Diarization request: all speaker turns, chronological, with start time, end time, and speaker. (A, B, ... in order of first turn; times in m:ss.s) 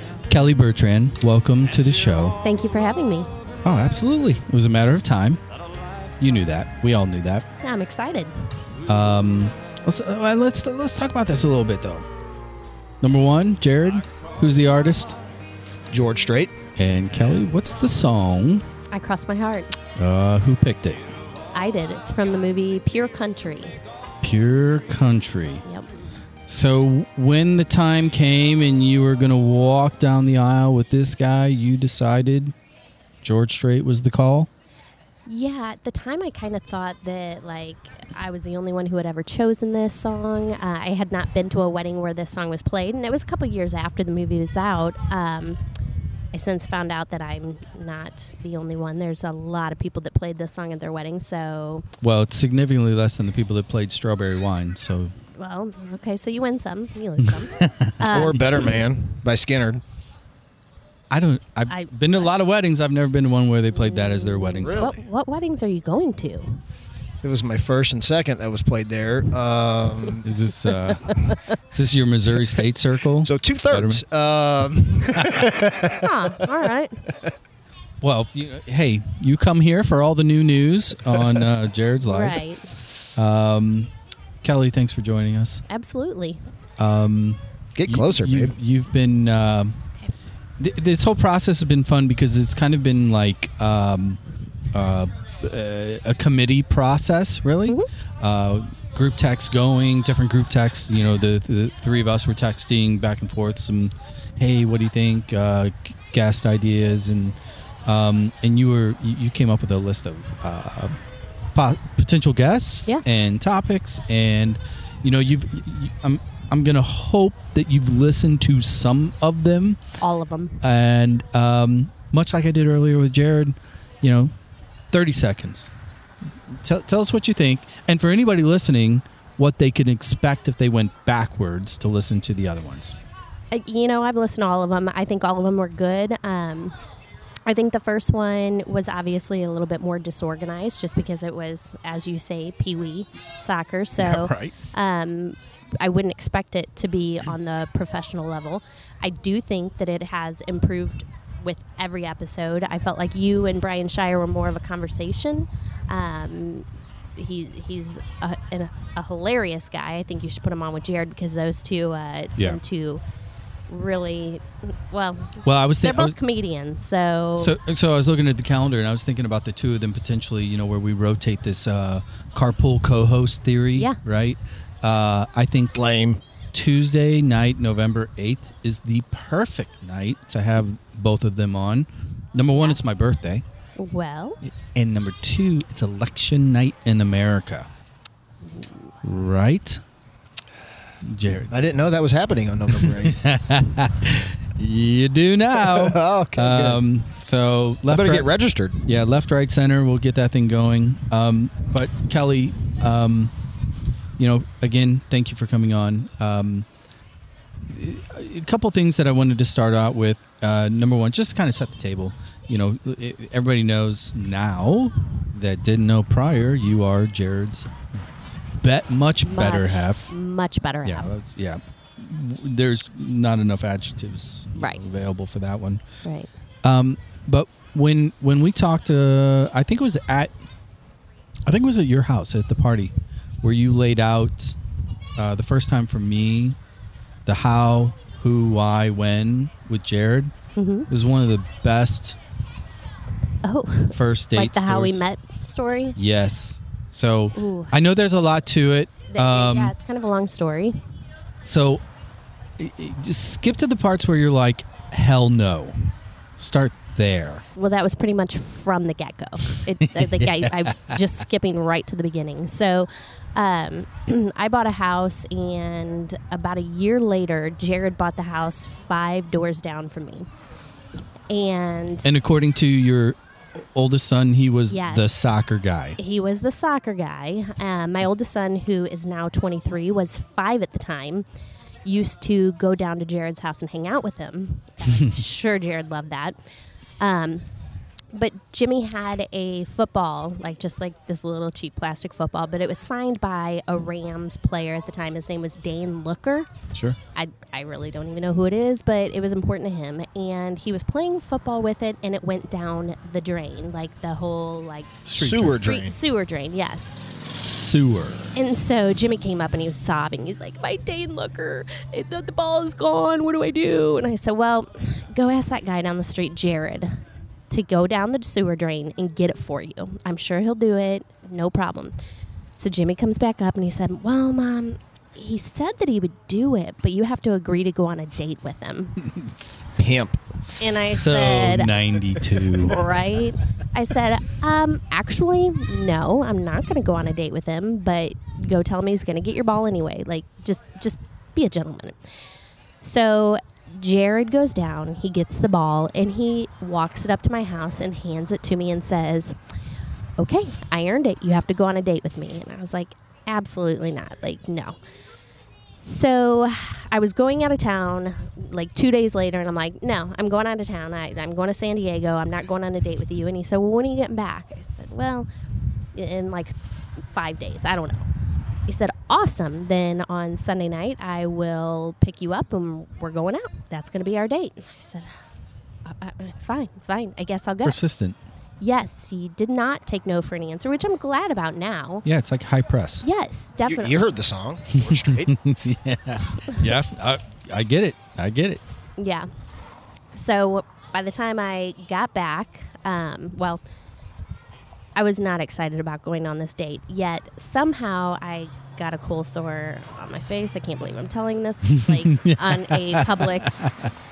0:00.3-0:02.4 A
0:02.4-0:03.3 B
0:03.6-0:05.4 A
0:06.2-0:07.5 A
0:07.6-0:08.5 B
0:08.9-0:12.1 A
0:13.0-0:15.2 A
0:15.9-0:16.5 C
0:16.8-0:18.6 A
0:18.9-0:19.8 B
0:20.0-0:21.1 A
0:21.5-0:23.8 B
0:24.2-0:25.6 A
0:26.5-0:32.5 A
0:33.2-0:34.5 A
0:35.3-0:45.6 B
0:46.3-0:51.8 B
0:52.0-0:55.1 A
0:55.3-0:58.7 B
0:57.5-0:58.4 A
0:58.1-0:59.8 C
1:01.1-1:04.8 A
1:01.7-1:02.3 B
1:03.7-1:06.6 B
1:04.6-1:05.0 C
1:07.2-1:10.2 C
1:10.2-1:14.0 A
1:13.2-1:16.5 C
1:16.0-1:17.0 B
1:18.0-1:22.4 A
1:22.1-1:22.6 B
1:23.2-1:23.9 A
1:24.4-1:25.6 A
1:25.7-1:26.4 B
1:26.8-1:29.8 A
1:27.8-1:28.5 C
1:30.6-1:34.2 A
1:34.7-1:51.0 A
1:51.5-1:59.8 A
2:00.0-2:00.6 B
2:00.6-2:04.3 A
2:04.9-2:05.7 A
2:06.5-2:13.0 A
2:13.5-2:16.8 B
2:17.5-2:43.0 B
2:24.0-2:24.5 A
2:43.7-2:47.6 B
2:45.4-2:46.2 A
2:47.4-2:55.8 A
2:55.8-2:56.2 C
2:56.5-3:03.4 A
3:03.8-3:04.4 B
3:04.4-3:07.7 A
3:08.4-3:08.9 B
3:09.0-3:09.8 A
3:11.0-3:11.5 A
3:11.5-3:13.2 C
3:12.8-3:18.3 A
3:15.5-3:16.8 C
3:17.9-3:18.8 C
3:18.8-3:23.3 A
3:24.2-3:26.7 A
3:27.7-3:37.7 A
3:38.6-3:40.1 A
3:39.2-3:41.2 B
3:40.8-3:45.8 A
3:44.6-3:44.8 B
3:46.6-3:50.3 A
3:51.5-3:54.6 A
3:55.2-3:56.6 A
3:57.3-4:00.3 A
4:00.6-4:00.9 B
4:00.9-4:02.2 A
4:03.4-4:06.0 B
4:03.9-4:05.0 A
4:06.0-4:09.7 A
4:07.4-4:07.7 B
4:09.1-4:10.8 B
4:11.4-4:11.8 A
4:12.6-4:17.4 A
4:17.6-4:30.3 B
4:19.5-4:21.0 A
4:31.3-4:32.1 B
4:32.0-4:33.2 A
4:33.8-4:36.0 A
4:34.7-4:35.2 B
4:36.0-4:41.2 B
4:41.8-4:46.4 B
4:44.9-4:45.1 A
4:47.0-4:47.5 B
4:48.1-4:56.5 B
4:57.2-5:07.0 B
5:05.0-5:05.6 A
5:05.2-5:06.0 C
5:07.3-5:08.4 A
5:08.4-5:22.0 B
5:22.6-5:29.0 B
5:29.0-5:29.6 A
5:29.8-5:30.3 C
5:30.6-5:31.7 B
5:30.6-5:32.8 A
5:32.3-5:42.1 B
5:42.8-5:49.4 B
5:50.2-5:54.8 B
5:55.8-6:05.3 B
6:05.9-6:08.1 B
6:08.7-6:15.2 B
6:15.8-6:17.8 B
6:17.6-6:18.2 A
6:18.6-6:22.0 B
6:22.0-6:23.0 A
6:23.0-6:24.1 B
6:23.7-6:25.3 C
6:24.7-6:28.6 A
6:29.0-6:29.3 B
6:30.1-6:33.6 B
6:35.0-6:43.6 B
6:41.7-6:43.9 A